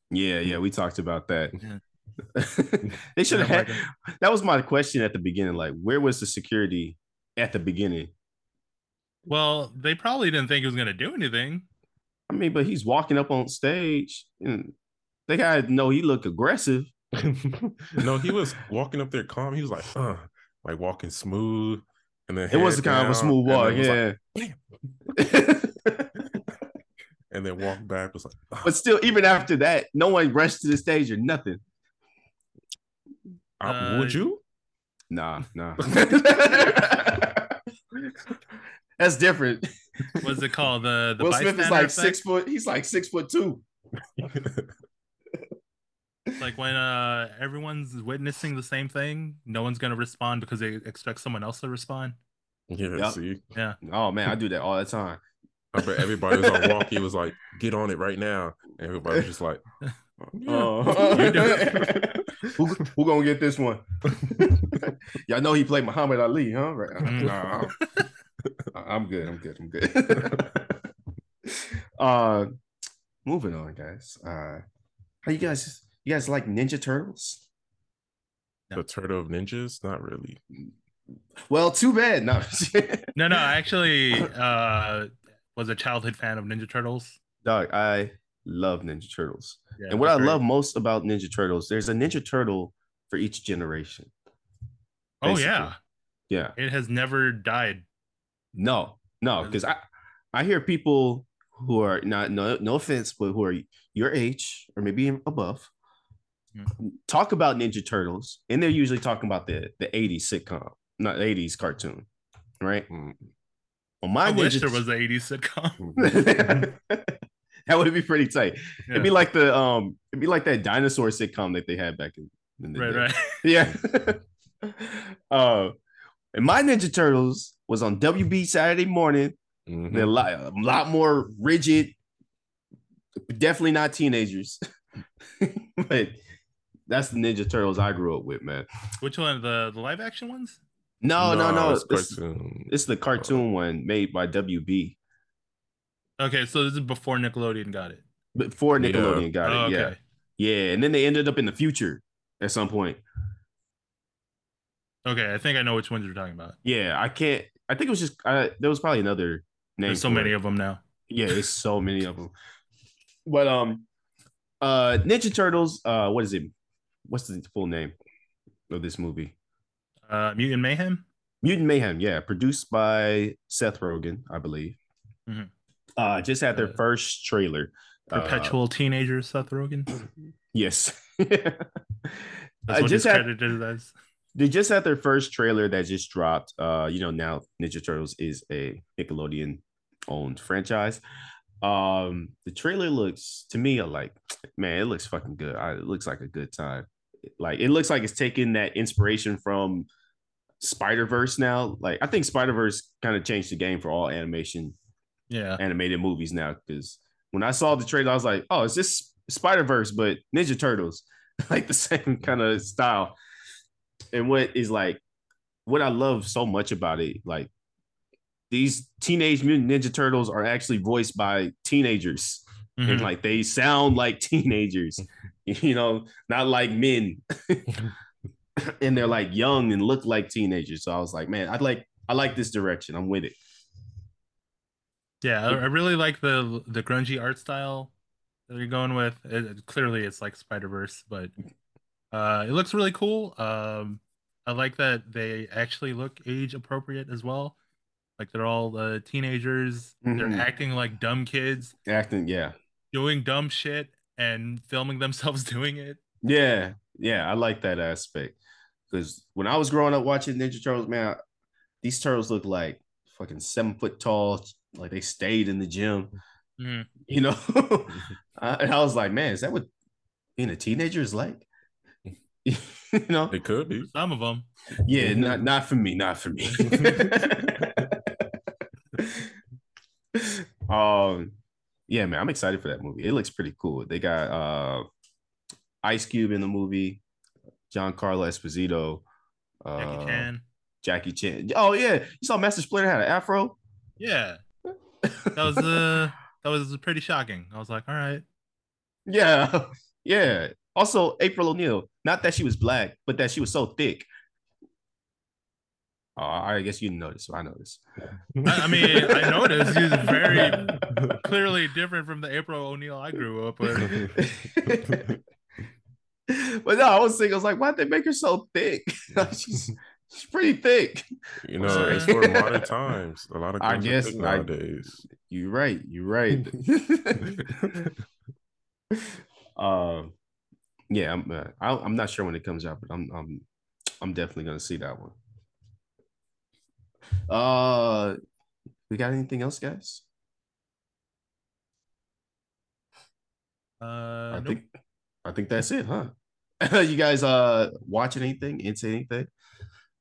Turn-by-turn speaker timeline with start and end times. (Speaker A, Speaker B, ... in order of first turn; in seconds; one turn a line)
Speaker A: 0.1-1.6
Speaker A: 2.4-8.1
Speaker B: 3.3-3.8
Speaker B: 9.3-11.7
Speaker A: 12.3-14.7
Speaker A: 15.3-16.9
Speaker C: 17.2-24.6
Speaker A: 22.5-24.2
Speaker A: 25.1-26.2
Speaker C: 27.3-28.7
Speaker A: 28.6-31.6
Speaker C: 33.6-34.4
Speaker B: 33.6-34.2
Speaker A: 35.1-37.6
Speaker A: 39.0-40.3
Speaker B: 40.2-42.2
Speaker A: 41.2-43.6
Speaker C: 44.2-44.8
Speaker B: 46.4-52.2
Speaker C: 52.7-53.4
Speaker A: 53.8-55.2
Speaker C: 55.7-59.6
Speaker A: 56.3-56.8
Speaker A: 60.3-67.7
Speaker C: 60.3-62.6
Speaker B: 61.1-61.7
Speaker B: 67.0-67.9
Speaker A: 68.7-70.8
Speaker C: 70.2-70.5
Speaker A: 71.5-72.5
Speaker A: 73.2-74.6
Speaker A: 75.2-77.5
Speaker C: 78.7-80.4
Speaker A: 81.5-83.2
Speaker B: 83.2-87.2
Speaker A: 87.4-94.1
Speaker B: 89.8-90.4
Speaker A: 95.2-95.7
Speaker B: 95.2-95.8
Speaker A: 96.3-96.5
Speaker B: 96.6-97.8
Speaker A: 98.5-99.8
Speaker A: 100.3-105.7
Speaker A: 106.8-112.1
Speaker A: 112.6-112.9
Speaker C: 112.9-113.3
Speaker A: 114.0-114.8
Speaker B: 114.2-115.8
Speaker C: 115.8-116.7
Speaker A: 116.0-125.7
Speaker B: 122.8-123.4
Speaker A: 126.3-129.4
Speaker C: 129.7-130.1
Speaker A: 129.9-132.0
Speaker A: 133.3-134.6
Speaker A: 135.4-136.2
Speaker A: 136.9-138.7
Speaker B: 139.0-140.6
Speaker A: 141.0-145.0
Speaker C: 141.2-143.4
Speaker B: 146.2-148.0
Speaker A: 148.3-153.0
Speaker C: 148.8-149.3
Speaker B: 149.4-150.0
Speaker B: 155.1-156.6
Speaker A: 156.6-160.3
Speaker B: 159.9-160.8
Speaker A: 161.1-162.3
Speaker A: 163.3-163.9
Speaker A: 164.6-166.5
Speaker A: 167.1-168.0
Speaker A: 168.7-169.3
Speaker B: 170.1-171.1
Speaker A: 171.4-174.8
Speaker A: 176.0-178.6
Speaker B: 178.1-179.9
Speaker A: 180.5-183.3
Speaker B: 182.7-183.9
Speaker A: 184.4-191.0
Speaker A: 191.6-196.9
Speaker A: 197.4-199.9
Speaker A: 200.6-204.8
Speaker B: 205.3-205.6
Speaker A: 205.6-213.2
Speaker A: 214.1-215.0
Speaker A: 215.7-217.5
Speaker A: 218.5-227.7
Speaker B: 222.8-223.1
Speaker A: 228.7-233.4
Speaker B: 235.2-237.9
Speaker B: 238.5-241.3
Speaker B: 242.1-247.6
Speaker B: 248.2-251.7
Speaker A: 250.0-250.5
Speaker A: 251.9-252.6
Speaker B: 252.9-256.0
Speaker A: 256.2-258.4
Speaker A: 258.9-261.2
Speaker A: 261.8-266.1
Speaker B: 266.6-266.9
Speaker A: 267.1-269.7
Speaker A: 270.4-271.5
Speaker A: 272.4-273.4
Speaker C: 273.3-273.9
Speaker B: 273.9-274.5
Speaker A: 274.8-278.0
Speaker C: 275.0-275.4
Speaker C: 276.6-277.9
Speaker A: 279.0-279.3
Speaker A: 280.1-281.4
Speaker A: 281.9-284.9
Speaker A: 285.8-287.0
Speaker A: 287.7-289.1
Speaker A: 289.6-290.3
Speaker B: 289.8-290.4
Speaker A: 290.8-293.6
Speaker B: 294.0-294.4
Speaker A: 295.0-295.7
Speaker B: 295.4-298.2
Speaker A: 299.1-304.1
Speaker A: 306.2-307.8
Speaker B: 308.4-313.9
Speaker A: 308.6-310.9
Speaker C: 310.3-311.2
Speaker A: 313.8-315.2
Speaker C: 313.8-315.2
Speaker A: 316.3-321.1
Speaker C: 321.4-325.1
Speaker A: 321.6-322.7
Speaker B: 321.7-322.1
Speaker A: 323.6-324.5
Speaker A: 325.2-327.9
Speaker C: 327.2-327.9
Speaker A: 329.0-330.1
Speaker A: 330.9-333.5
Speaker A: 334.0-335.2
Speaker A: 337.3-338.2
Speaker A: 338.9-340.1
Speaker B: 343.8-344.6
Speaker A: 344.3-344.6
Speaker A: 345.2-349.3